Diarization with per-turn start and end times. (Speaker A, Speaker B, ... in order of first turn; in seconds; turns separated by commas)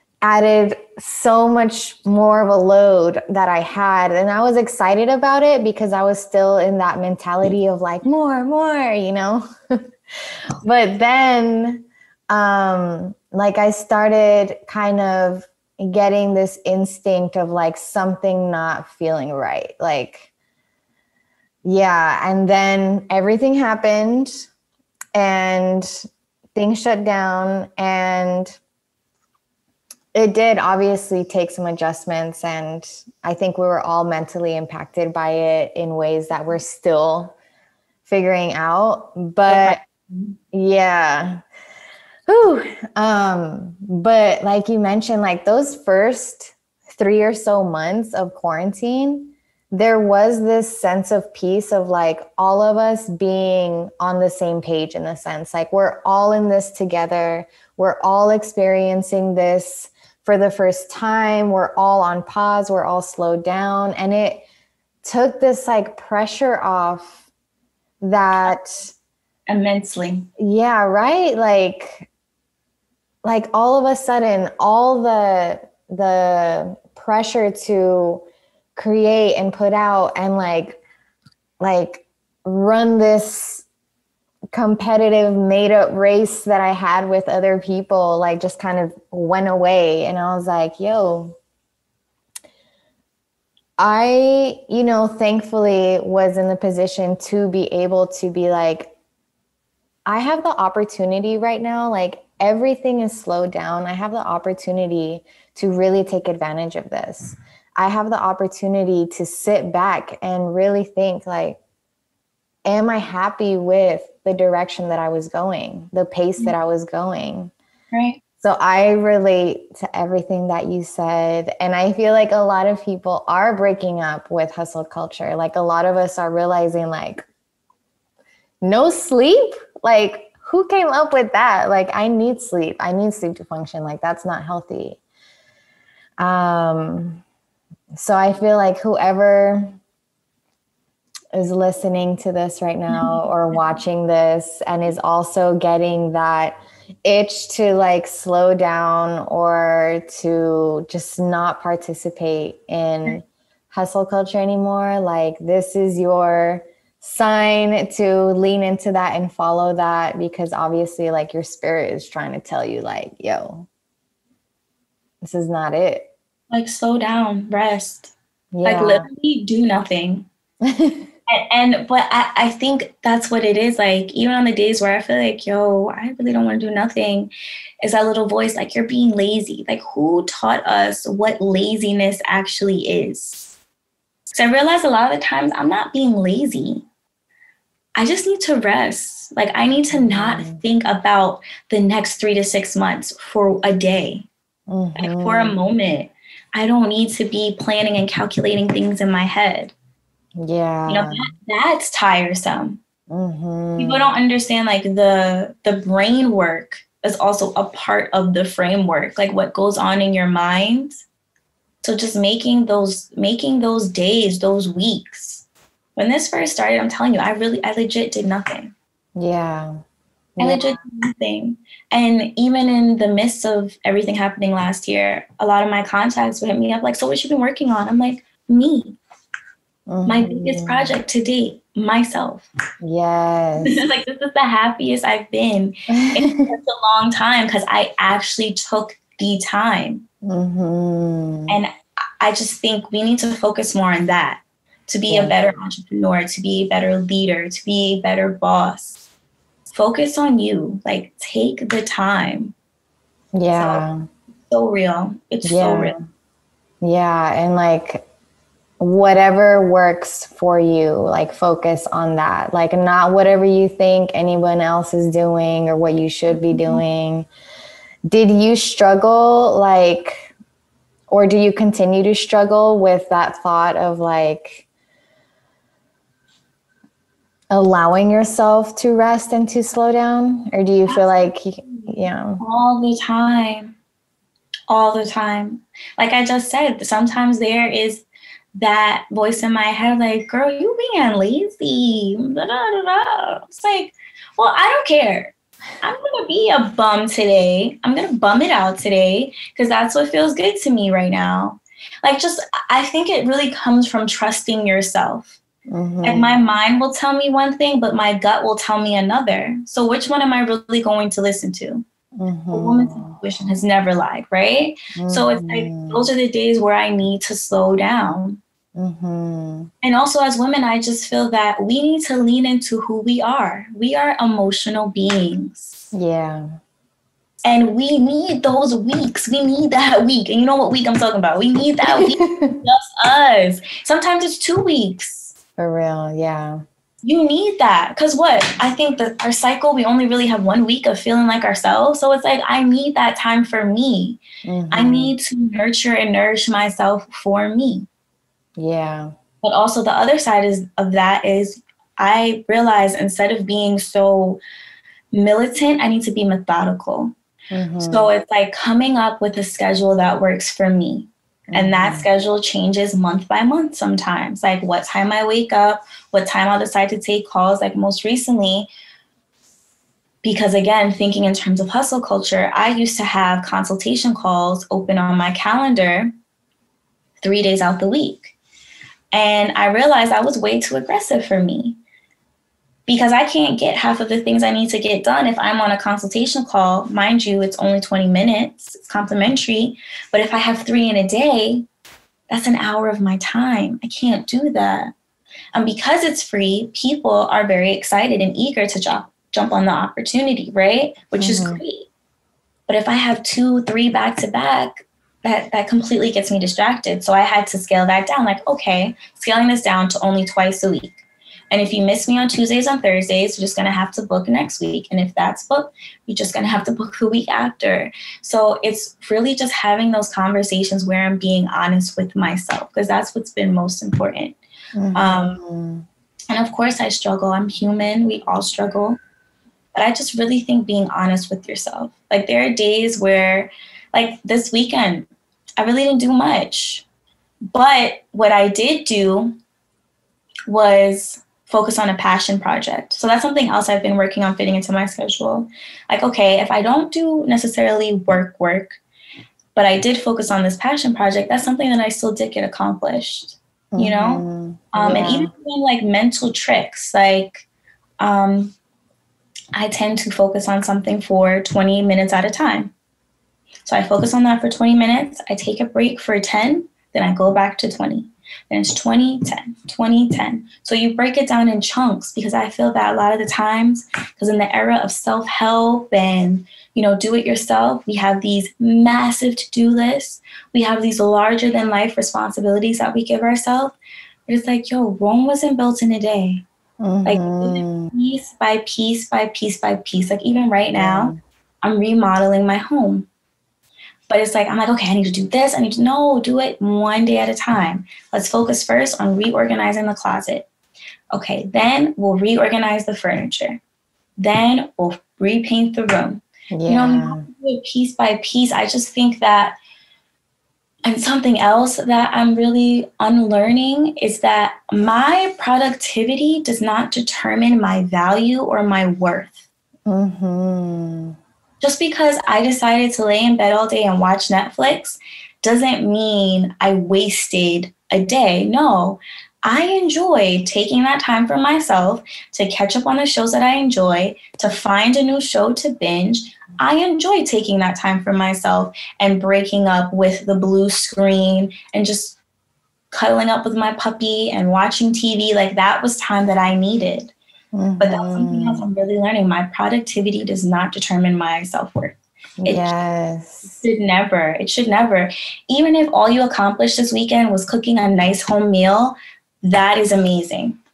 Speaker A: 0.2-9.8, Speaker A: 10.6-20.3, Speaker A: 21.6-24.5, Speaker A: 25.1-28.6, Speaker A: 30.1-37.3, Speaker A: 38.1-39.8, Speaker B: 39.5-40.3, Speaker A: 40.5-41.4, Speaker A: 42.3-64.4, Speaker A: 65.0-67.2, Speaker A: 68.0-68.9, Speaker B: 69.5-70.3, Speaker A: 70.4-72.1, Speaker A: 73.2-78.2, Speaker A: 78.8-80.8, Speaker A: 81.6-83.7, Speaker A: 84.5-91.4, Speaker A: 93.8-98.9, Speaker A: 100.0-111.6, Speaker A: 112.6-117.5, Speaker B: 117.9-118.2, Speaker A: 118.4-127.2, Speaker A: 128.6-135.0, Speaker A: 136.2-137.2, Speaker A: 137.9-139.8, Speaker A: 141.3-163.7, Speaker B: 142.9-143.6, Speaker A: 165.2-166.1, Speaker B: 166.5-170.3, Speaker A: 168.5-169.1, Speaker A: 170.6-171.1, Speaker B: 171.3-183.5, Speaker B: 184.3-186.8, Speaker B: 187.9-194.3, Speaker A: 189.9-190.6, Speaker A: 194.7-195.6, Speaker B: 194.9-199.7, Speaker A: 200.4-201.3, Speaker B: 200.9-202.8, Speaker A: 203.1-204.1, Speaker B: 203.8-211.0, Speaker B: 211.8-215.4, Speaker B: 215.9-218.7, Speaker A: 219.2-219.8, Speaker A: 220.4-220.6, Speaker B: 220.4-229.0, Speaker A: 229.9-230.9, Speaker B: 230.1-232.5, Speaker A: 232.8-233.8, Speaker B: 233.6-240.0, Speaker A: 235.9-236.5, Speaker A: 240.2-241.6, Speaker B: 241.5-249.0, Speaker A: 245.1-245.4, Speaker B: 249.7-252.5, Speaker A: 253.3-254.1, Speaker B: 253.5-253.8, Speaker B: 254.5-255.9, Speaker A: 255.4-256.0, Speaker A: 256.8-258.0, Speaker A: 258.8-267.3, Speaker B: 266.3-266.8, Speaker A: 268.1-270.3, Speaker A: 271.1-274.6, Speaker A: 277.5-282.4, Speaker B: 280.9-283.7, Speaker B: 284.7-288.0, Speaker B: 288.6-305.4, Speaker A: 305.7-306.3, Speaker B: 306.0-311.8, Speaker A: 312.1-313.2, Speaker B: 312.5-318.4, Speaker A: 314.9-316.1, Speaker A: 318.8-319.7, Speaker B: 319.8-325.8, Speaker A: 325.9-326.5, Speaker B: 327.4-335.3, Speaker A: 331.9-332.6, Speaker A: 335.6-336.6, Speaker B: 337.0-347.9, Speaker A: 344.4-345.1, Speaker A: 348.6-349.1, Speaker B: 349.4-354.4, Speaker B: 355.1-357.1, Speaker A: 357.5-358.1, Speaker B: 357.8-368.7, Speaker A: 361.5-362.1, Speaker B: 370.2-376.1, Speaker B: 377.2-378.4, Speaker B: 379.1-381.8, Speaker B: 382.9-391.7, Speaker B: 392.3-394.9, Speaker B: 395.5-401.9, Speaker A: 401.2-401.6, Speaker B: 402.7-424.4, Speaker A: 424.7-425.8, Speaker B: 424.9-425.4, Speaker B: 426.3-429.0, Speaker B: 429.7-436.9, Speaker B: 437.5-439.3, Speaker B: 440.5-448.8, Speaker B: 449.5-457.4, Speaker A: 453.7-455.3, Speaker B: 458.0-458.5, Speaker B: 459.5-462.7, Speaker B: 463.6-483.8, Speaker B: 484.3-486.4, Speaker A: 486.8-487.9, Speaker B: 487.0-493.1, Speaker A: 490.8-491.2, Speaker B: 494.1-500.5, Speaker B: 501.1-503.6, Speaker B: 504.2-509.6, Speaker A: 506.5-507.3, Speaker B: 510.8-519.4, Speaker A: 519.9-521.1, Speaker B: 521.6-542.2, Speaker B: 542.9-547.1, Speaker A: 547.5-548.6, Speaker B: 547.8-552.7, Speaker A: 552.4-553.6, Speaker B: 553.5-560.6